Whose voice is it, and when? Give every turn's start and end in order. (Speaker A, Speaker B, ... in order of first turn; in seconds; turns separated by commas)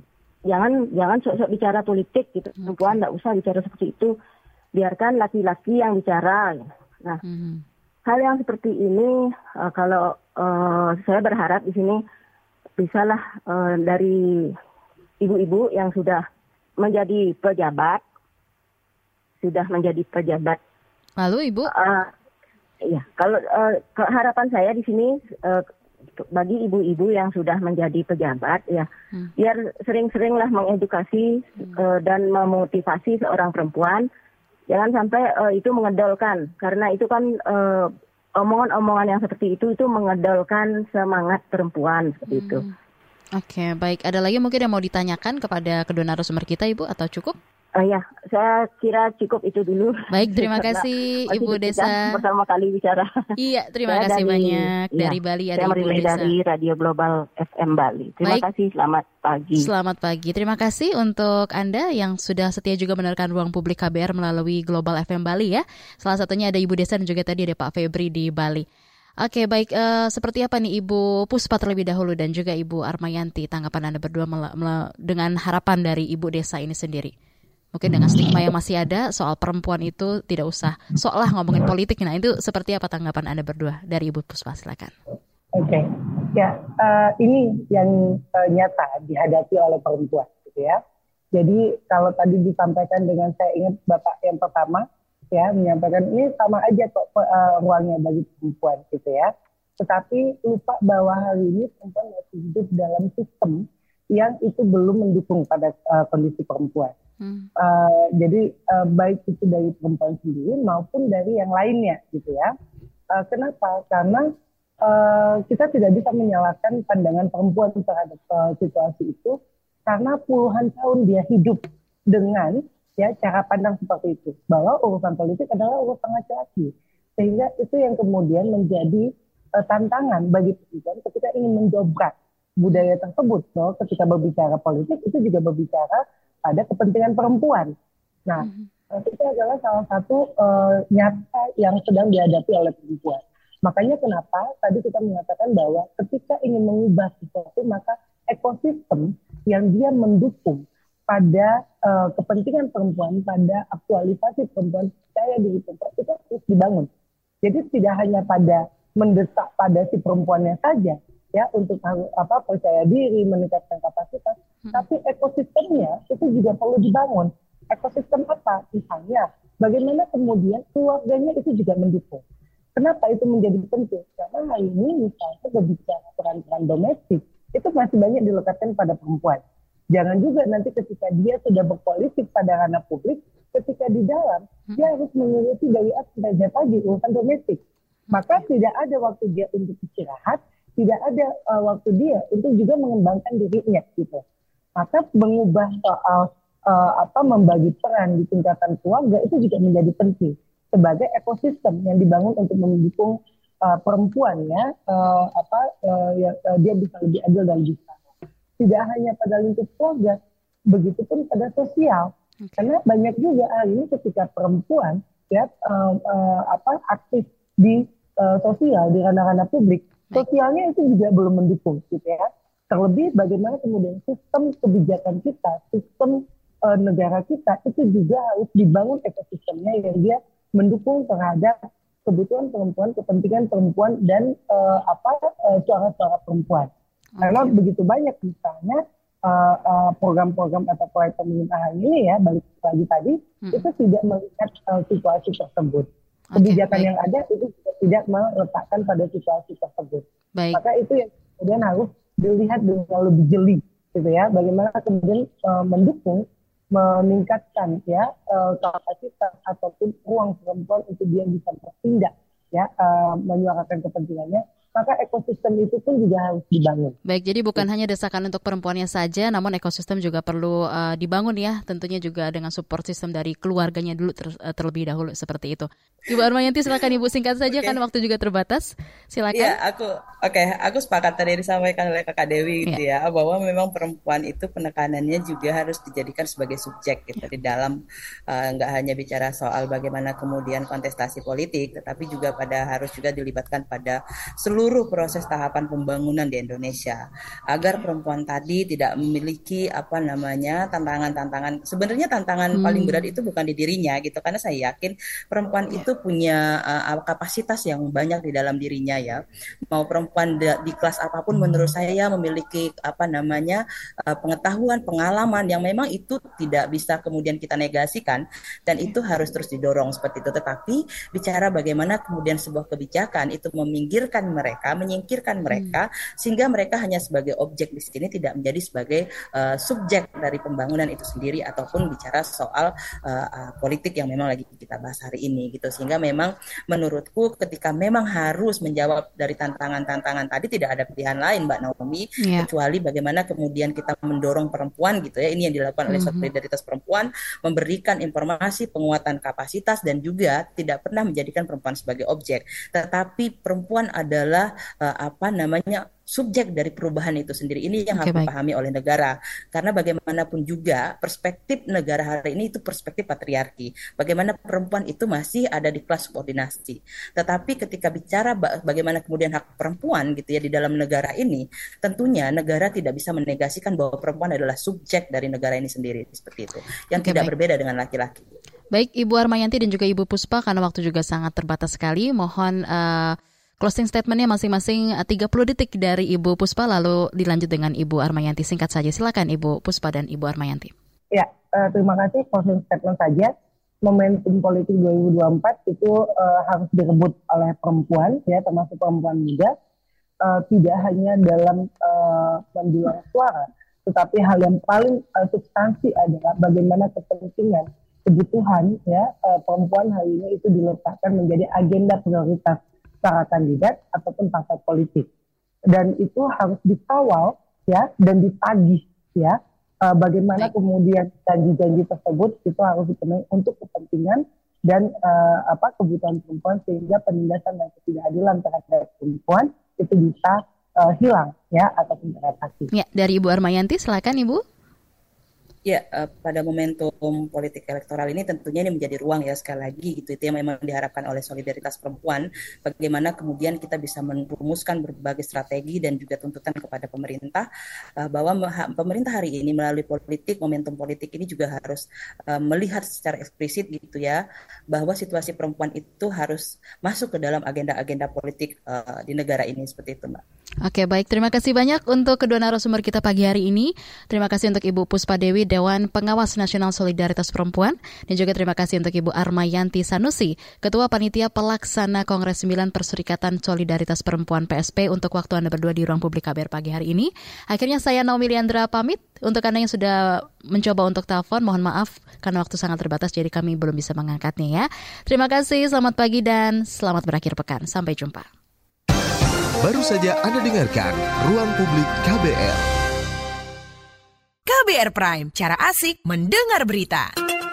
Speaker A: 0.5-4.1, Speaker B: 2.6-3.0, Speaker A: 4.8-7.2, Speaker B: 7.2-7.6, Speaker A: 8.1-12.0, Speaker A: 12.8-14.5, Speaker A: 15.2-16.2, Speaker A: 16.8-18.0, Speaker A: 19.4-20.6, Speaker B: 21.2-21.7, Speaker A: 21.7-22.1, Speaker A: 22.9-25.7, Speaker A: 26.3-34.1, Speaker A: 34.7-42.6, Speaker B: 42.3-42.7, Speaker B: 43.4-47.4, Speaker A: 47.8-53.1, Speaker B: 50.1-52.2, Speaker B: 53.4-56.3, Speaker A: 53.9-59.7, Speaker B: 59.6-68.7, Speaker B: 69.2-77.1, Speaker B: 77.7-84.9, Speaker C: 85.5-90.8, Speaker C: 91.3-106.9, Speaker B: 107.2-107.5, Speaker C: 107.6-112.5, Speaker C: 113.1-114.3, Speaker C: 114.8-137.7, Speaker C: 138.3-156.9, Speaker B: 138.4-138.7, Speaker C: 157.4-172.2, Speaker C: 172.8-179.4, Speaker C: 179.9-187.6, Speaker B: 188.1-188.4, Speaker C: 188.1-194.2, Speaker C: 194.8-208.0, Speaker C: 208.6-236.7, Speaker B: 212.4-212.7, Speaker B: 237.2-237.6, Speaker C: 237.2-267.0, Speaker B: 246.3-246.9, Speaker B: 250.4-250.6, Speaker B: 267.1-279.6, Speaker D: 277.5-277.8, Speaker D: 279.3-287.8, Speaker D: 288.3-297.0, Speaker D: 297.5-378.3, Speaker B: 302.6-303.1, Speaker B: 325.5-325.8, Speaker B: 342.2-342.5, Speaker B: 345.9-346.3, Speaker B: 357.9-358.3, Speaker B: 377.0-377.3, Speaker B: 378.7-390.7, Speaker C: 391.1-399.5, Speaker C: 400.2-415.1, Speaker C: 415.7-432.7, Speaker B: 432.7-434.4, Speaker D: 435.7-447.5, Speaker D: 448.0-454.2, Speaker D: 454.7-460.2, Speaker B: 460.6-480.0, Speaker B: 480.5-488.3, Speaker E: 489.6-492.7, Speaker F: 494.5-497.1